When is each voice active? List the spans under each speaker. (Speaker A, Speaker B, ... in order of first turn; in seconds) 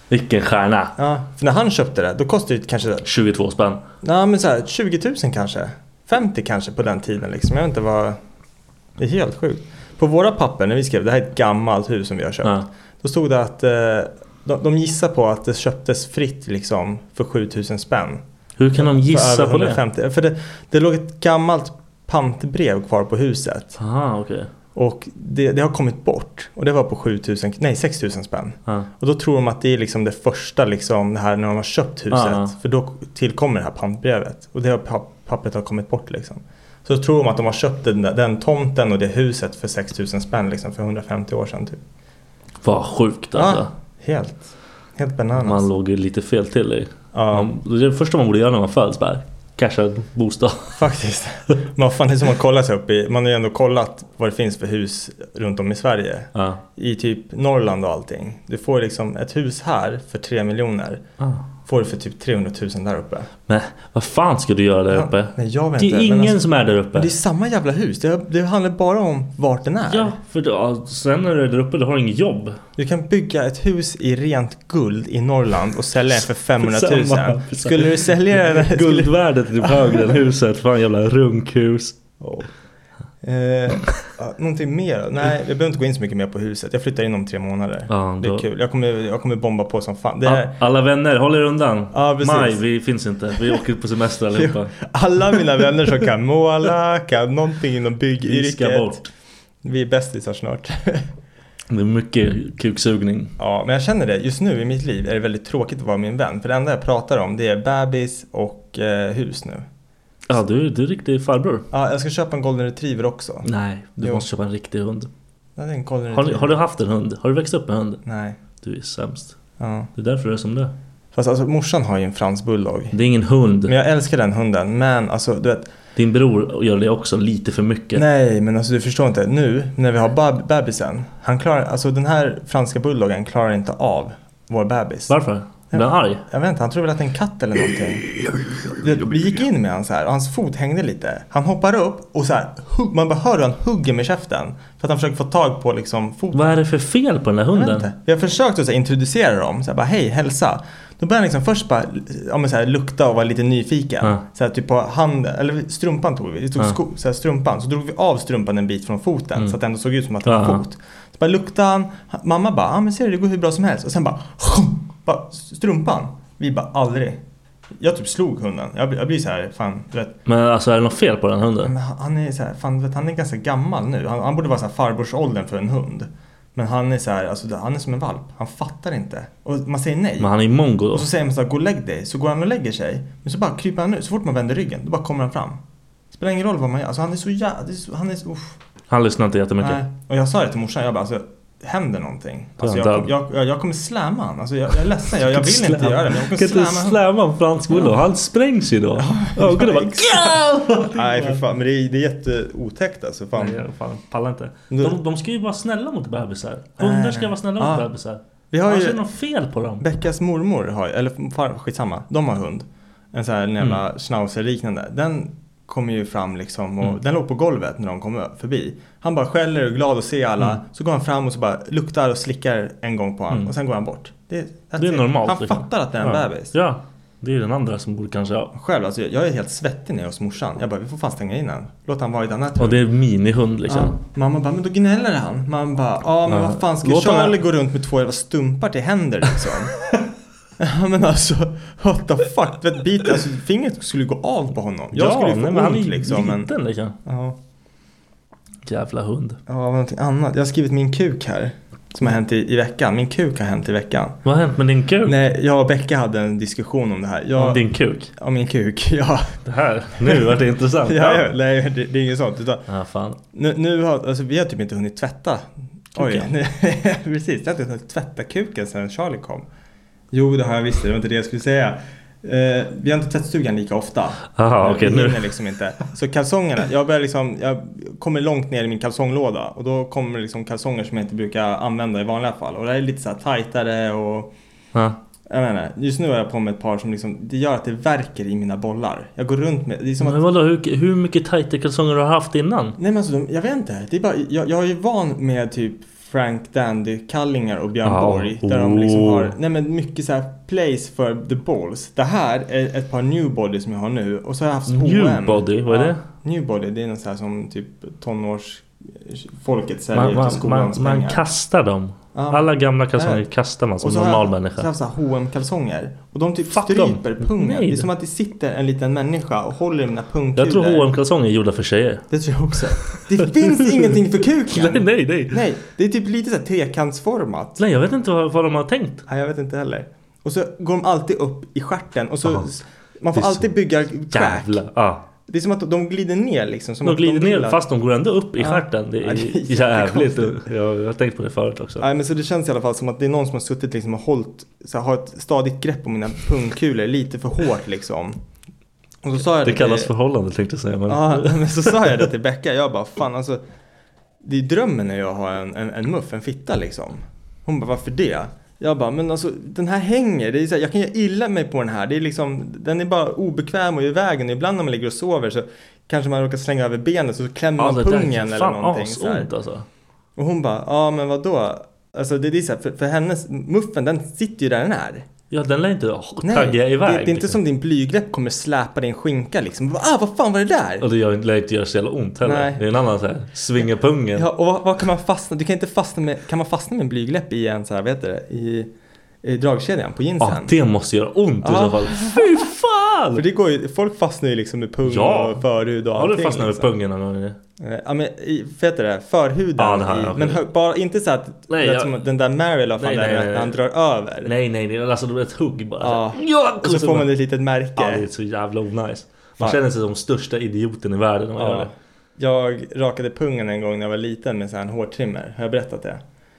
Speaker A: 0.1-1.0, 3.0-3.8, 12.4-12.7, 18.6-19.8, 23.8-24.5, 32.1-32.5, 42.6-43.7, 45.4-50.8, 56.3-56.6, 61.2-61.5, 63.5-67.1, 69.9-72.6, 76.6-82.0, 87.9-88.5, 90.2-94.8, 98.2-99.1, 101.7-103.3, 110.3-111.7, 113.4-115.1, 116.1-118.0, 118.6-119.4, 120.0-120.7, 122.9-123.7, 126.0-128.0, 135.1-136.2, 146.3-147.9, 160.3-160.6, 170.3-171.7, 180.2-181.1, 188.9-189.8, 192.6-193.1, 195.2-201.4, 203.3-209.8, 224.8-228.5, 232.6-234.0, 236.3-237.4, 244.9-247.0, 248.7-249.4, 254.2-255.2, 257.4-258.1, 259.5-261.3, 262.7-263.2, 266.0-266.3, 274.4-275.3, 290.0-292.8, 297.9-299.3, 304.7-306.0, 309.9-314.7, 316.5-317.9, 320.4-322.1, 322.8-324.0, 324.5-325.4, 327.6-329.1, 333.1-333.5, 334.1-335.1, 336.8-341.9, 349.4-352.1, 367.6-369.7, 375.3-377.4, 380.8-384.3, 390.2-393.2, 394.9-395.4, 395.9-397.4, 399.6-400.4, 401.5-402.0, 402.8-403.6, 404.2-407.1, 407.8-411.7
Speaker B: 1.0-3.1, 4.0-8.2, 9.0-18.2, 18.8-23.8, 24.8-41.8, 43.3-45.7, 47.1-47.5, 50.8-61.0, 61.7-63.3, 64.9-66.4, 66.9-70.2, 72.8-80.2, 82.2-82.5, 83.2-90.6, 91.9-92.6, 94.3-99.0, 99.6-101.1, 103.4-109.7, 111.7-113.5, 115.6-116.6, 118.0-118.4, 119.6-119.9, 121.1-123.0, 123.7-125.7, 128.0-135.2, 135.7-146.5, 147.5-167.2, 167.8-170.2, 171.6-180.3, 180.9-188.6, 189.6-197.0, 197.7-198.0, 199.0-203.6, 204.7-205.0, 206.8-207.9, 208.5-209.0, 209.8-226.6, 228.5-232.8, 233.7-239.9, 240.6-246.5, 247.0-247.4, 249.5-254.2, 255.0-259.4, 260.0-262.7, 263.3-269.5, 270.1-284.3, 285.3-290.2, 292.8-311.2, 312.1-313.3, 313.8-320.9, 322.1-327.6, 329.1-334.6, 335.3-337.6, 338.4-340.5, 341.8-348.2, 349.0-349.9, 350.9-353.4, 354.2-369.3, 370.2-375.1, 376.2-380.9, 382.2-382.7, 383.6-388.7, 389.2-390.6, 391.4-392.4, 393.1-396.7, 397.6-404.3, 405.8-408.1, 411.4-416.0